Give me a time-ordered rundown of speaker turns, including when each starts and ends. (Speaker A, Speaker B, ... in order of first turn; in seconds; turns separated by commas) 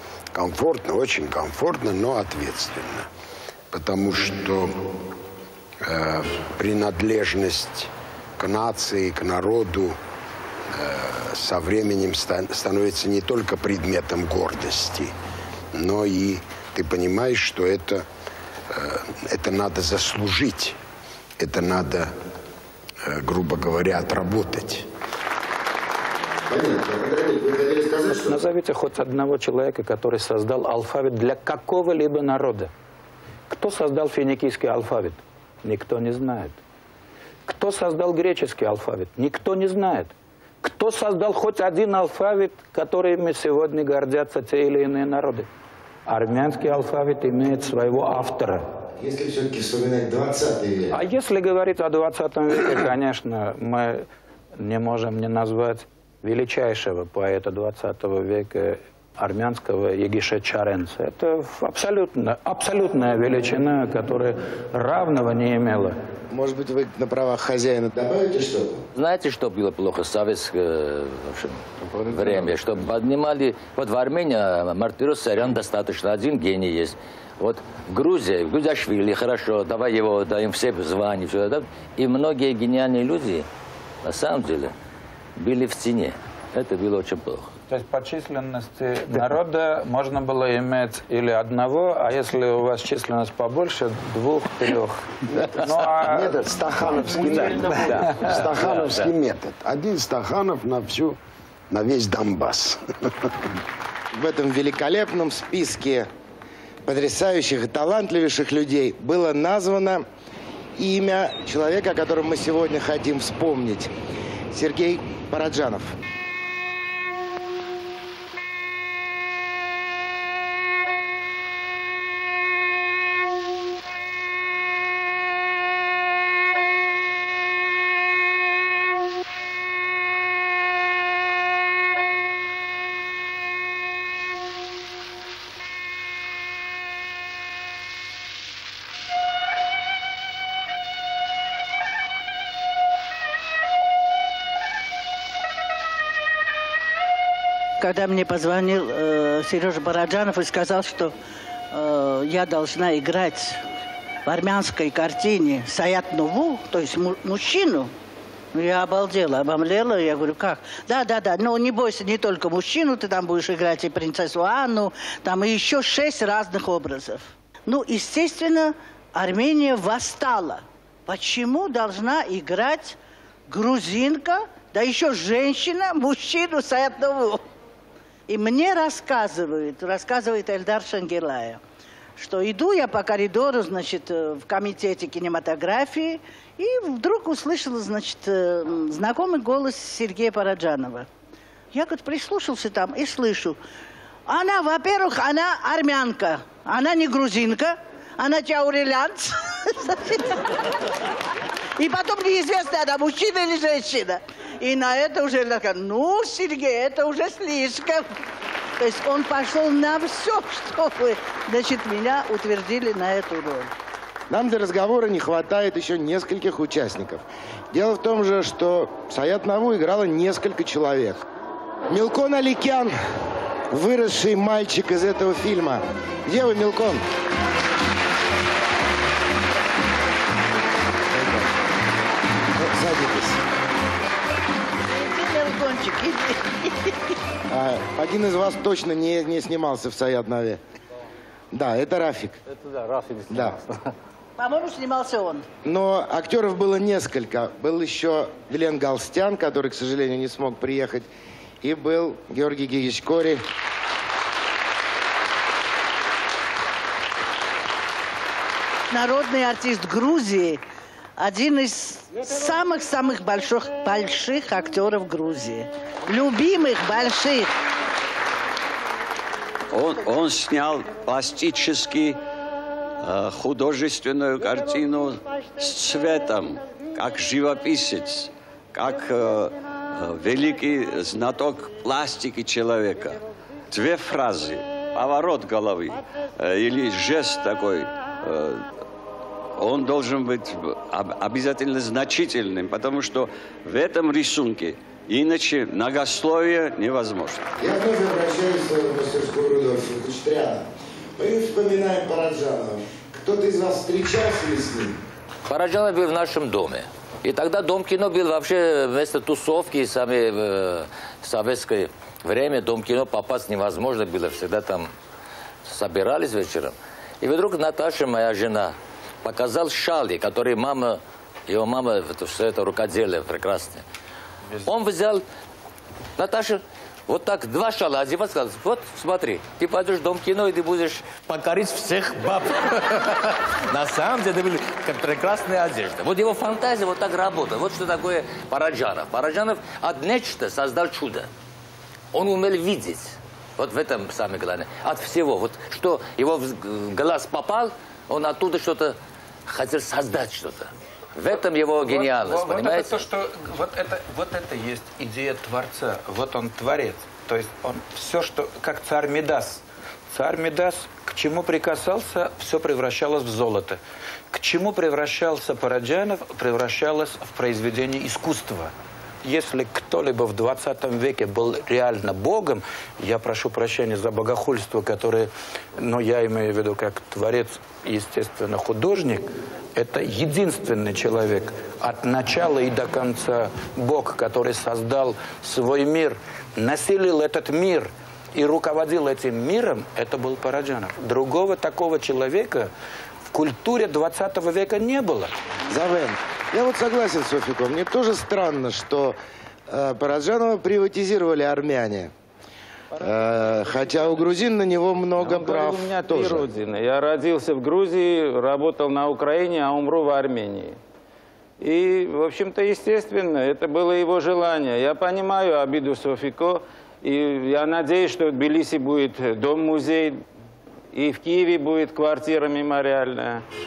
Speaker A: 0.3-3.1, Speaker A: 3.7-4.7, Speaker A: 5.8-10.0, Speaker A: 10.7-15.1, Speaker A: 15.7-18.0, Speaker A: 18.7-20.8, Speaker A: 21.4-22.1, Speaker A: 23.0-24.9, Speaker B: 26.5-28.4, Speaker C: 28.1-32.7, Speaker C: 33.5-36.6, Speaker C: 37.5-45.5, Speaker C: 46.0-48.6, Speaker B: 49.0-50.9, Speaker C: 50.9-54.0, Speaker C: 54.6-66.0, Speaker B: 66.3-68.8, Speaker D: 68.9-83.5, Speaker A: 71.9-72.3, Speaker D: 84.0-84.7, Speaker D: 85.4-87.5, Speaker C: 87.7-98.9, Speaker A: 95.4-101.2, Speaker A: 101.7-103.3, Speaker B: 104.1-106.1, Speaker B: 106.8-110.0, Speaker B: 110.8-113.9, Speaker B: 114.5-116.0, Speaker E: 147.8-151.1, Speaker E: 151.7-153.6, Speaker E: 154.2-157.9, Speaker E: 158.5-173.0, Speaker E: 173.5-177.4, Speaker E: 178.3-181.6, Speaker E: 182.2-191.1, Speaker E: 191.7-193.6, Speaker E: 194.3-200.5, Speaker E: 201.8-208.1, Speaker E: 208.8-213.7, Speaker B: 214.3-221.2, Speaker B: 221.9-222.9, Speaker B: 223.7-227.0, Speaker B: 231.1-231.5, Speaker B: 232.6-233.4, Speaker E: 234.9-237.1, Speaker B: 237.5-240.6, Speaker B: 241.5-242.4, Speaker B: 243.3-243.6, Speaker E: 244.4-245.5, Speaker B: 245.6-251.1, Speaker B: 251.6-253.4, Speaker E: 258.9-260.6, Speaker E: 261.2-267.5, Speaker F: 269.7-272.2, Speaker F: 273.0-283.2, Speaker F: 283.7-288.5, Speaker F: 289.6-297.4, Speaker B: 297.6-305.0, Speaker D: 305.4-314.9, Speaker D: 315.6-323.8, Speaker D: 324.6-325.2, Speaker D: 326.2-333.0, Speaker D: 333.7-341.3, Speaker D: 342.1-348.9, Speaker D: 349.5-353.0, Speaker C: 351.8-363.8, Speaker C: 364.3-368.7, Speaker C: 369.2-392.7, Speaker C: 393.3-395.3, Speaker B: 395.7-399.2, Speaker B: 399.7-402.1, Speaker B: 403.0-406.5, Speaker G: 405.3-405.6, Speaker C: 405.4-406.5, Speaker G: 406.2-410.7, Speaker G: 411.6-420.0, Speaker G: 421.0-423.1